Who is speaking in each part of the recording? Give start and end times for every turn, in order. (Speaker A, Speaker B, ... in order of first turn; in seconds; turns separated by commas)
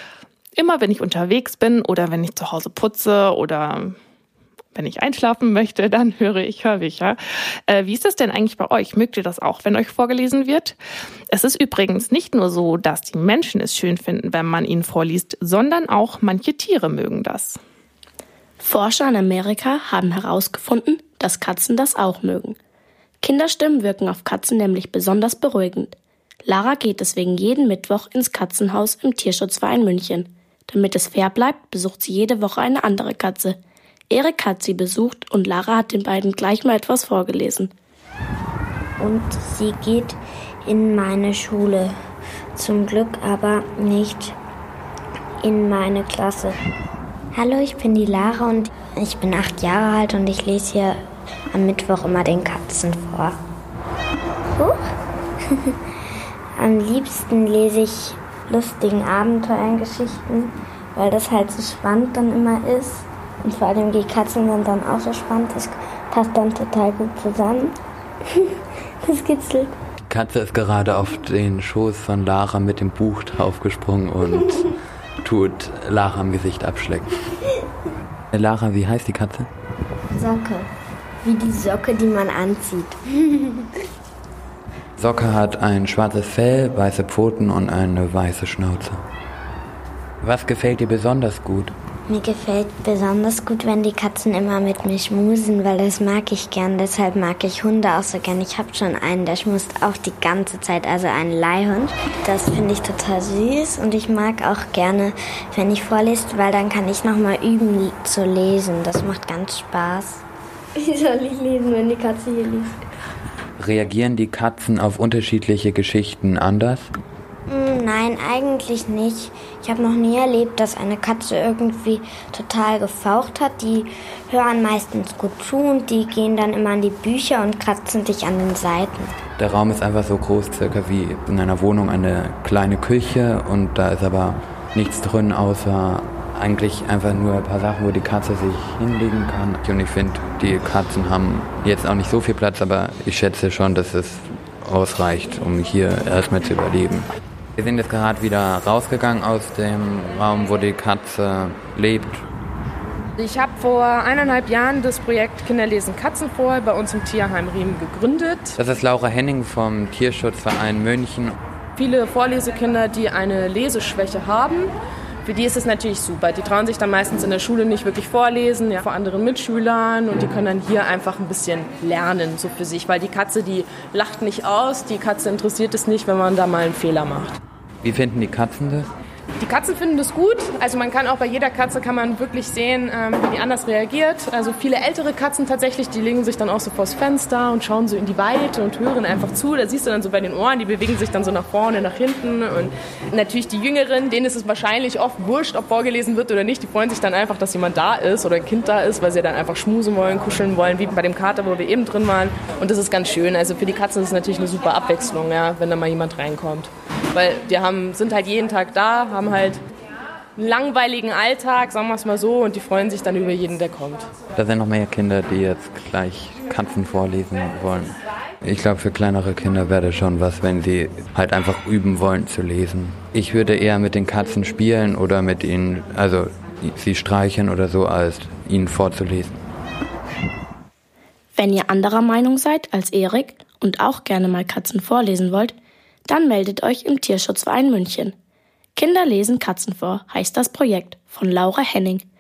Speaker A: 0.6-4.0, Speaker A: 4.8-10.8, Speaker A: 11.3-17.6, Speaker B: 18.6-22.6, Speaker B: 23.2-33.6, Speaker B: 34.1-37.7, Speaker C: 39.0-41.9, Speaker C: 42.6-44.4, Speaker C: 45.4-46.6, Speaker C: 47.3-51.0, Speaker C: 51.5-53.4, Speaker C: 56.6-67.8, Speaker C: 69.0-69.8, Speaker D: 70.1-74.7, Speaker D: 75.2-77.2, Speaker D: 78.3-79.5, Speaker C: 80.1-80.7, Speaker C: 81.2-83.6, Speaker D: 85.0-89.0, Speaker D: 90.2-91.7, Speaker C: 92.1-110.2, Speaker C: 110.8-112.7, Speaker D: 113.6-116.9, Speaker C: 117.5-129.2, Speaker D: 129.4-147.1, Speaker D: 147.6-152.3, Speaker E: 153.2-158.6, Speaker D: 158.6-161.4, Speaker E: 161.8-164.7, Speaker E: 165.2-177.4, Speaker D: 177.8-178.9, Speaker E: 179.4-209.6, Speaker E: 210.4-214.1, Speaker D: 214.3-229.4, Speaker B: 231.3-235.6, Speaker B: 236.1-238.2, Speaker B: 238.8-242.0